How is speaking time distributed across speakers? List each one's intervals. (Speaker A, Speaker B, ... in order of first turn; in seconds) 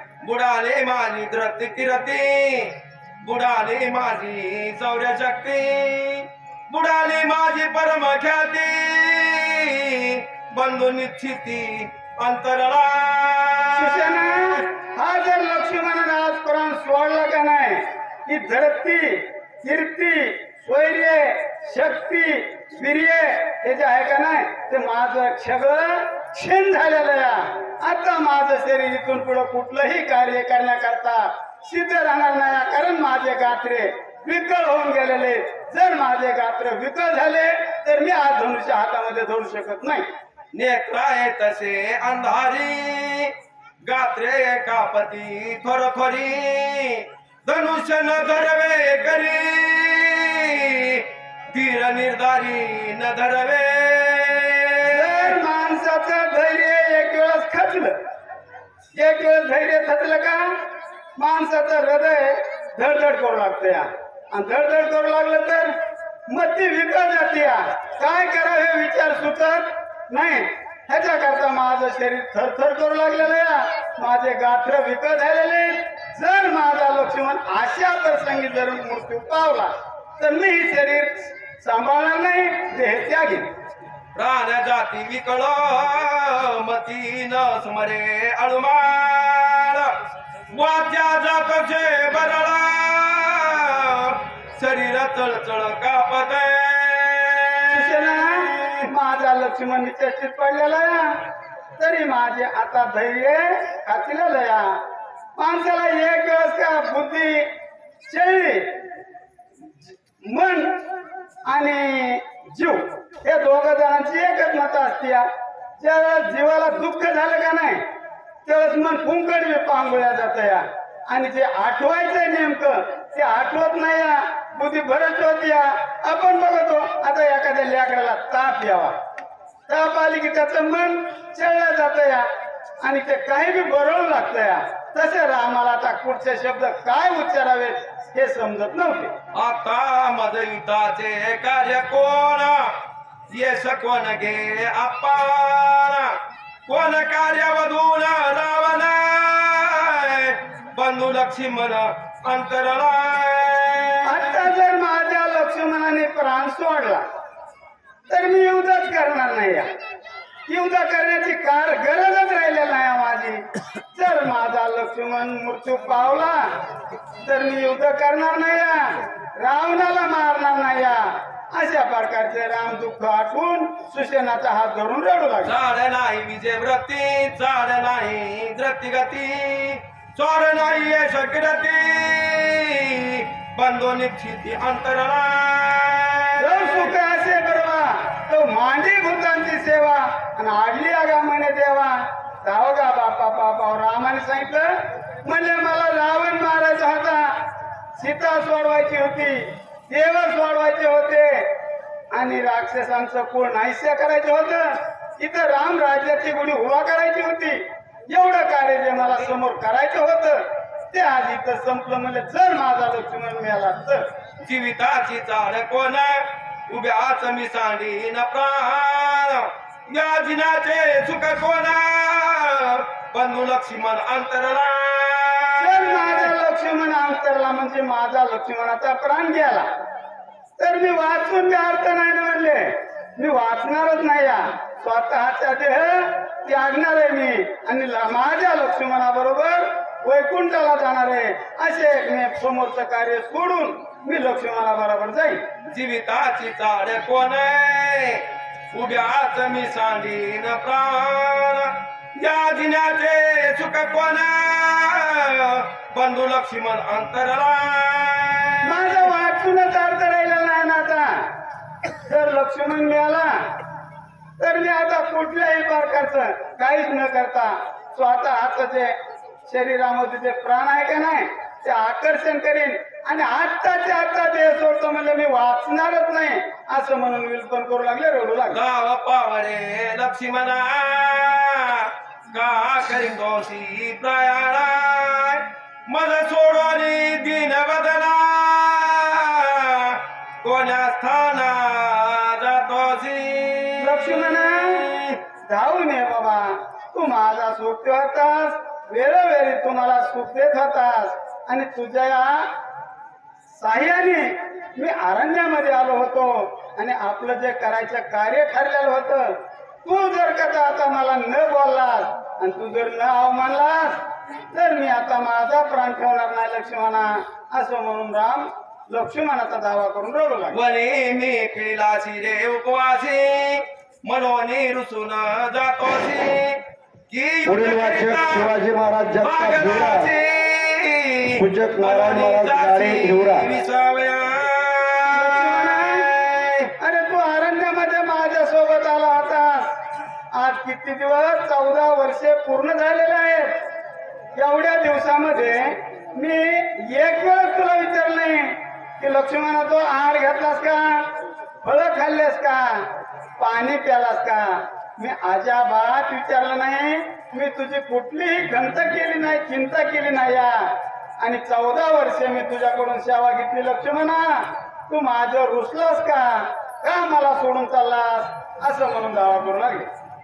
Speaker A: 0.2-14.6, 40.5-43.3, 43.8-55.3, 84.2-89.9, 90.5-98.8, 139.3-142.7, 143.3-146.1, 146.7-154.0, 175.4-186.9, 214.4-226.3, 245.7-258.9, 278.5-295.2, 320.5-328.6, 329.2-336.7
Speaker B: 13.7-40.0, 54.9-57.9, 59.0-60.5, 61.2-65.7, 66.3-83.5, 97.7-101.2, 101.8-104.7, 105.4-107.5, 108.1-108.8, 110.2-110.9, 111.5-115.3, 115.8-117.8, 118.5-128.9, 129.7-132.2, 132.8-139.1, 154.0-157.0, 158.1-159.7, 160.5-166.5, 167.2-175.6, 186.4-194.7, 195.2-197.4, 198.0-201.5, 202.1-214.0, 225.6-229.7, 230.6-245.4, 258.6-261.3, 262.0-263.4, 264.4-268.9, 269.5-278.6, 293.8-294.9, 295.5-302.5, 303.6-320.6, 335.1-336.1, 336.8-339.7, 340.3-343.5, 344.4-351.1, 351.6-352.8, 353.4-360.6, 361.2-369.9
Speaker C: 327.4-330.1, 331.4-333.5